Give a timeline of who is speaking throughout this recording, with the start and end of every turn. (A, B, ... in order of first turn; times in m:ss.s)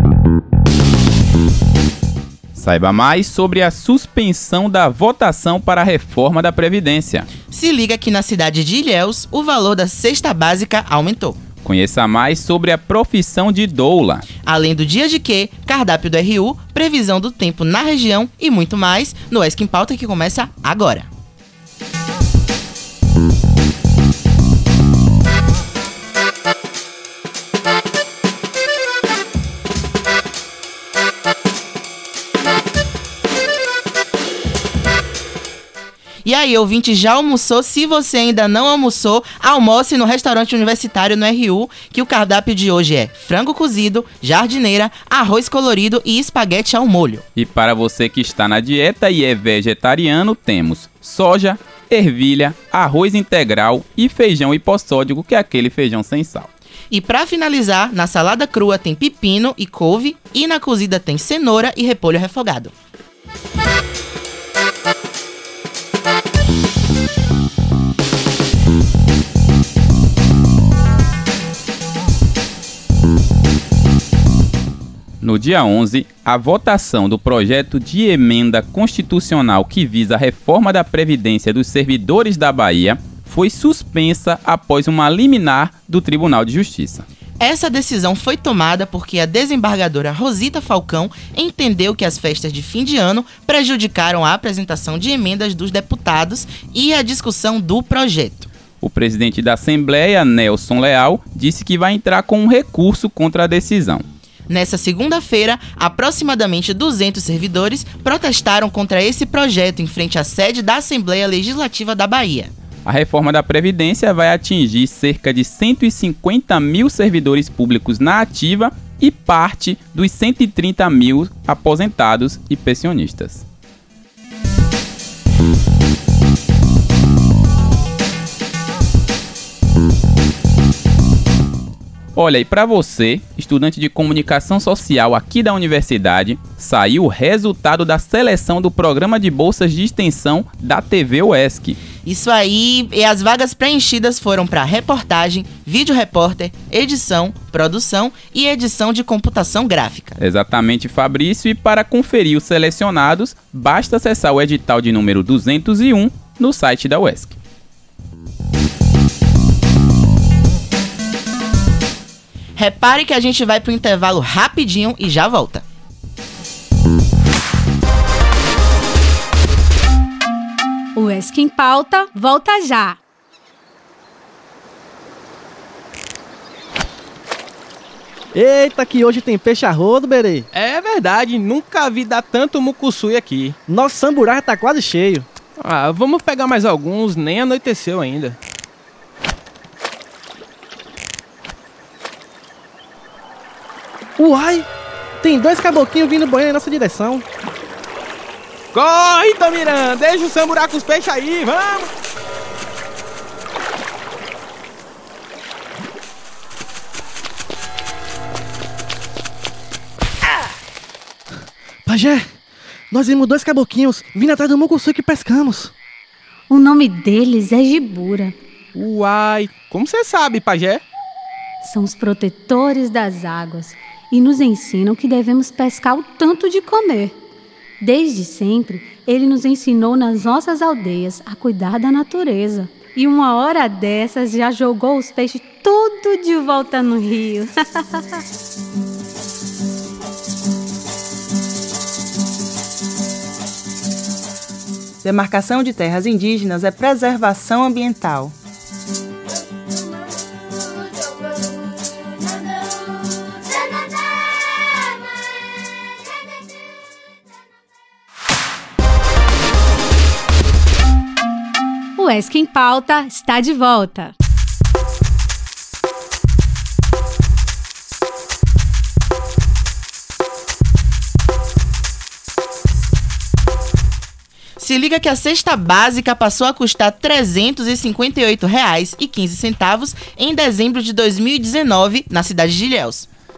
0:02.5-0:07.3 A
0:07.5-0:11.4 B
0:11.6-0:14.2 A
0:14.4-0:21.1 B
0:36.2-0:47.2 B
0:47.4-0:56.5 A
0:56.9-1:02.7 B
1:15.2-1:27.0 A
1:27.4-1:38.5 B
1:38.8-1:44.0 A
1:44.5-1:52.5 B
1:52.8-2:03.4 A
2:12.1-2:21.8 A
2:22.0-2:30.2 B
2:30.2-2:37.4 A
2:42.6-2:45.6 B
2:50.9-2:53.0 C
2:58.3-3:00.4 D
3:00.5-3:03.5 E
3:03.7-3:05.2 D
3:05.6-3:08.4 E
3:14.2-3:14.6 D
3:15.2-3:17.2 D
3:18.7-3:21.9 E
3:31.8-3:32.3 D
3:32.9-3:35.7 D
3:36.5-3:38.3 C
3:38.8-3:40.8 E
3:41.6-3:47.2 C
3:47.8-3:57.8 C
4:05.0-4:08.3 B
4:22.0-4:24.1 C
4:34.6-4:43.0 B